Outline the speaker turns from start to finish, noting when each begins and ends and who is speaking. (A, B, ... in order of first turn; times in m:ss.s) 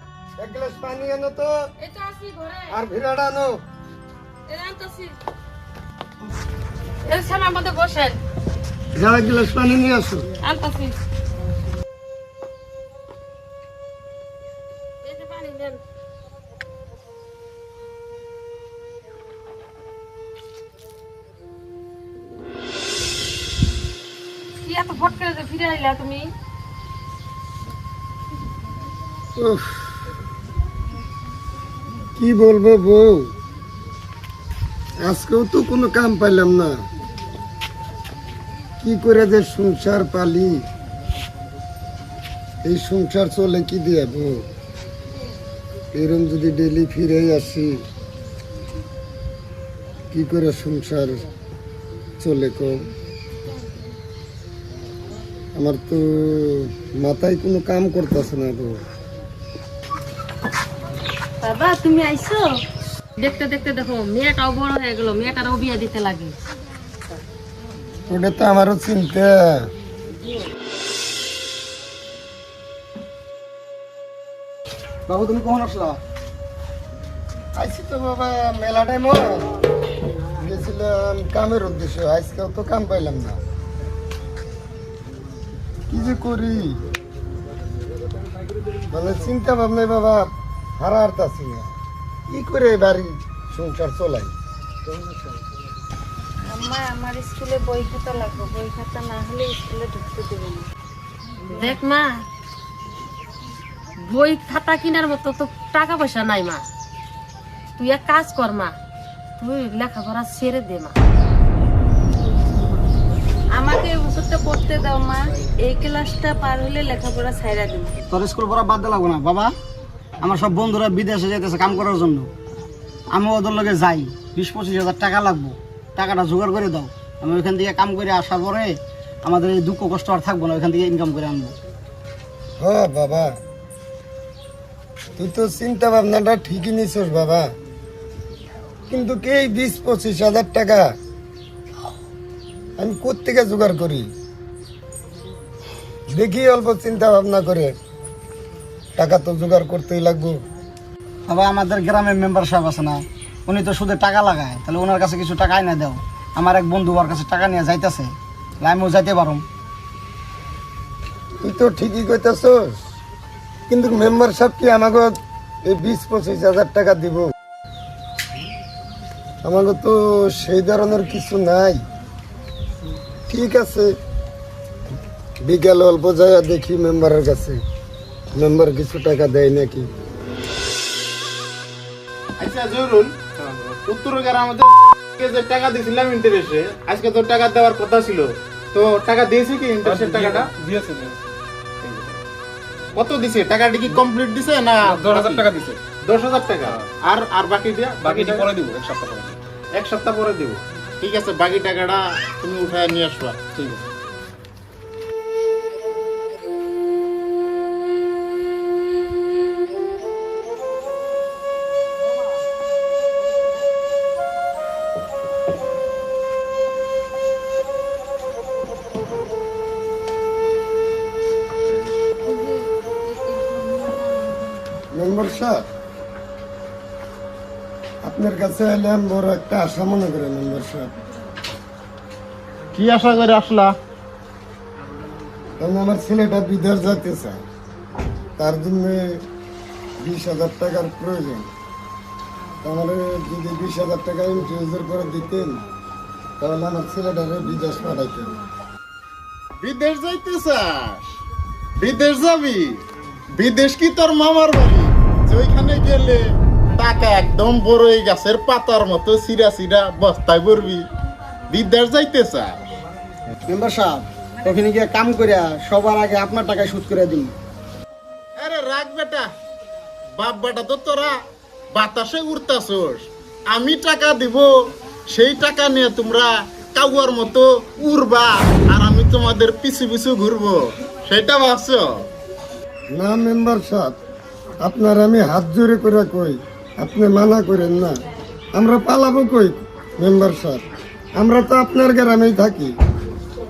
0:00.4-0:01.5 A
0:01.8-0:02.7 B
0:02.7-0:03.6 A
0:04.5-0:05.1 B
0:07.0-0:08.2 B
0:09.0-0:10.3 A
0:10.4-0:11.0 B
0:15.0-0:15.8 B
0:24.6-0:26.3 B
0:29.4-0:29.9 A
0:32.2-0:33.3 A
0:35.0-0:36.8 A
0:38.8-0:40.6 A
0:42.6-0:44.4 A
0:45.9-0:47.8 A
0:50.1-0:51.2 A
0:52.2-0:52.8 A
0:55.5-0:58.8 A
1:01.4-1:02.5 C
1:03.2-1:06.3 B
1:08.1-1:09.7 A
1:15.1-1:16.0 D
1:17.6-1:19.5 A
1:20.4-1:23.4 A
1:25.9-1:26.8 A
1:28.9-1:31.7 A
1:32.3-1:34.3 A
1:36.5-1:40.7 C
1:41.5-1:42.2 B
1:44.0-1:46.6 B
1:47.8-1:48.7 B
1:49.4-1:51.0 B
1:53.5-1:57.9 C
1:58.1-1:59.5 D
2:00.2-2:02.3 D
2:03.1-2:11.5 D
2:12.6-2:13.4 A
2:15.2-2:17.5 A
2:18.9-2:20.9 A
2:22.8-2:24.1 A
2:26.1-2:27.7 A
2:29.0-2:30.4 A
2:31.3-2:39.4 D
2:41.4-2:42.8 A
2:43.7-2:47.3 A
2:49.4-2:51.8 A
2:53.3-2:53.9 A
2:55.4-2:57.6 A
2:58.3-2:59.9 A
3:02.4-3:03.1 E
3:03.4-3:03.8 F
3:03.9-3:10.5 E
3:09.8-3:11.2 F
3:11.8-3:12.2 F
3:13.0-3:15.5 E
3:14.8-3:15.8 F
3:16.1-3:18.5 E
3:18.0-3:19.4 F
3:19.7-3:23.4 E
3:23.5-3:23.8 F
3:42.2-3:44.6 C
3:44.9-3:45.6 A
3:48.0-3:50.9 A
3:52.7-3:53.7 E
3:55.6-3:57.4 A
3:58.4-3:59.2 A
4:00.0-4:01.5 A
4:02.6-4:05.6 A
4:06.4-4:08.4 A
4:09.6-4:11.1 E
4:11.8-4:12.8 E
4:13.3-4:16.2 E
4:16.8-4:20.8 E
4:21.5-4:22.7 E
4:23.5-4:27.3 D
4:28.4-4:29.3 E
4:30.2-4:31.1 E
4:31.7-4:34.5 E
4:35.1-4:42.0 E
4:42.9-4:44.0 A
4:44.6-4:48.0 A
4:48.5-4:50.6 A
4:51.2-4:52.8 A